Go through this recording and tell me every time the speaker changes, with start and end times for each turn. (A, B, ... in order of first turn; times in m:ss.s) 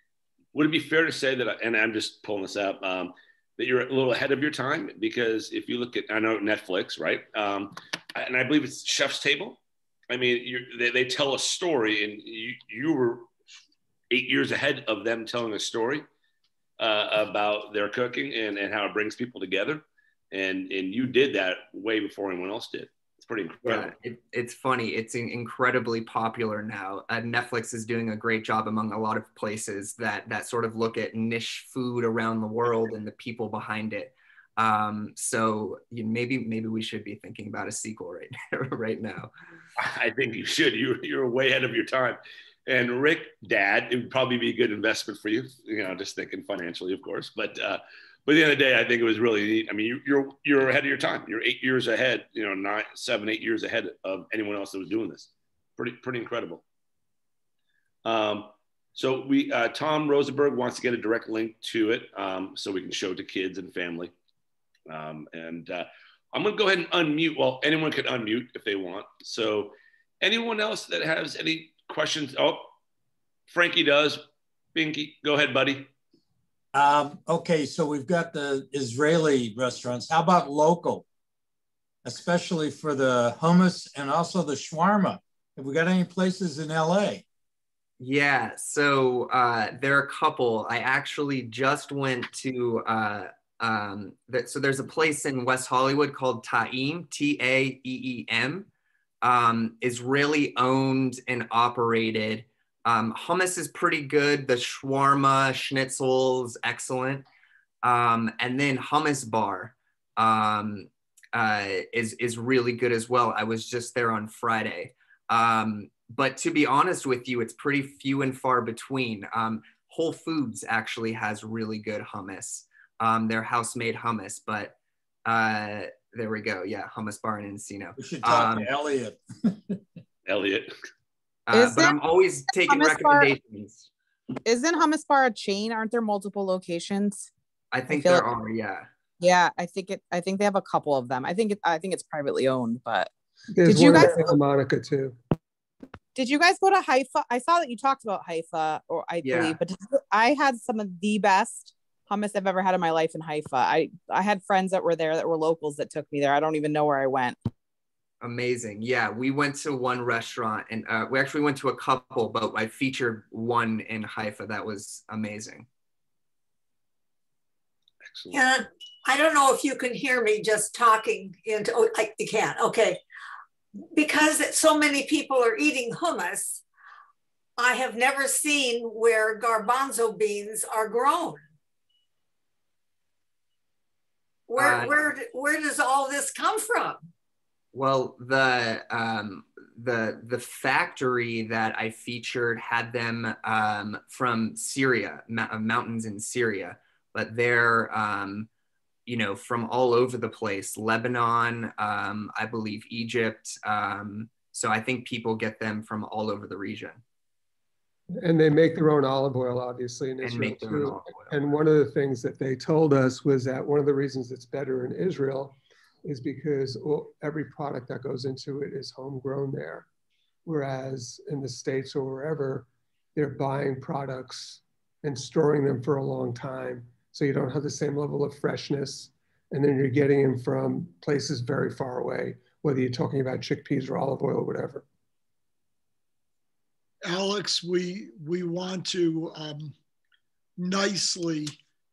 0:00.5-0:09.6 A
0:10.1-0:13.3 A
0:14.1-0:16.0 A
0:16.8-0:23.9 A
0:23.6-0:39.3 B
0:39.8-0:56.6 A
0:58.0-1:04.1 A
1:04.9-1:12.7 A
1:13.5-1:15.9 A
1:16.7-1:21.0 C
1:22.0-1:27.2 C
1:28.0-1:38.7 B
1:39.2-1:47.2 B
1:47.8-2:08.7 B
2:08.0-2:09.7 C
2:10.3-2:10.7 A
2:11.5-2:13.9 B
2:11.5-2:13.3 D
2:14.4-2:17.3 D
2:17.7-2:18.9 B
2:17.9-2:18.3 D
2:19.2-2:23.1 D
2:23.5-2:25.2 E
2:23.6-2:24.2 D
2:26.1-2:37.4 D
2:29.2-2:29.6 B
2:38.2-2:45.7 B
2:48.0-2:48.4 A
2:48.3-2:53.0 F
2:53.9-2:56.6 F
2:57.6-3:01.4 F
3:04.5-3:07.0 F
3:04.6-3:04.9 B
3:07.7-3:18.5 B
3:19.1-3:27.0 B
3:28.2-3:39.8 E
3:30.2-3:31.3 B
3:40.4-3:54.8 E
3:57.0-3:59.8 G
4:00.6-4:01.5 G